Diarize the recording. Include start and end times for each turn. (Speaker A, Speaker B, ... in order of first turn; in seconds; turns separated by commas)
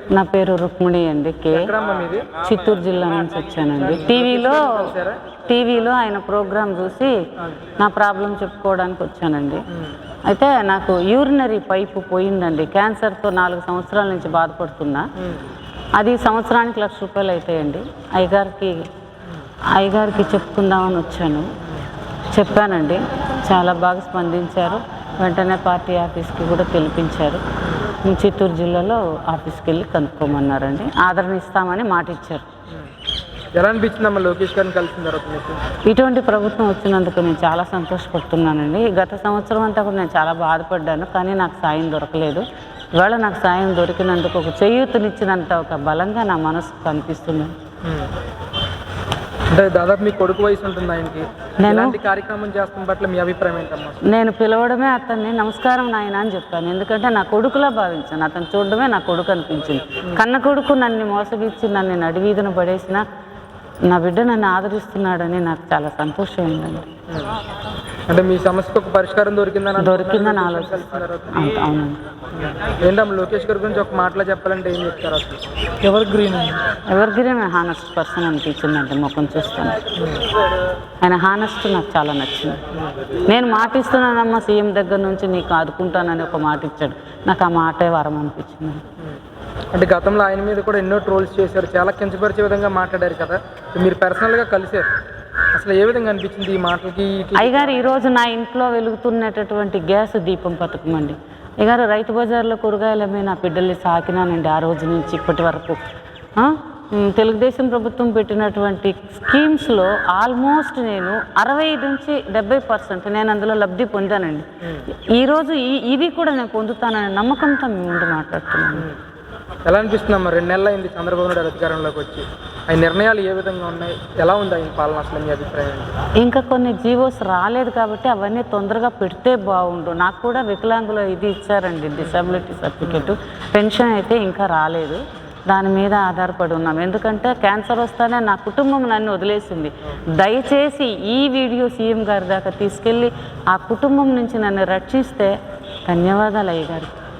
Speaker A: 0.1-1.7, Speaker B: 1.5-2.4, Speaker A: 2.4-4.9, Speaker B: 3.8-5.2, Speaker A: 5.4-7.1, Speaker A: 7.8-9.6, Speaker A: 10.2-15.1, Speaker B: 15.2-15.4, Speaker A: 16.0-18.9, Speaker A: 19.7-21.5, Speaker A: 22.3-27.4, Speaker A: 28.0-32.4, Speaker B: 33.6-35.6, Speaker A: 35.9-42.4, Speaker A: 43.0-47.5, Speaker B: 47.8-48.1, Speaker B: 49.5-54.0, Speaker A: 51.6-52.0, Speaker A: 54.0-63.0, Speaker A: 63.9-66.8, Speaker B: 68.1-71.4, Speaker A: 69.8-72.0, Speaker B: 72.3-76.6, Speaker A: 76.9-79.8, Speaker B: 80.0-80.2, Speaker A: 81.0-82.6, Speaker A: 83.2-88.8, Speaker B: 89.7-94.9, Speaker B: 95.5-97.9, Speaker A: 97.3-105.8, Speaker A: 106.3-118.9, Speaker B: 119.7-125.9, Speaker A: 126.2-145.3, Speaker B: 132.8-133.1, Speaker A: 145.9-146.9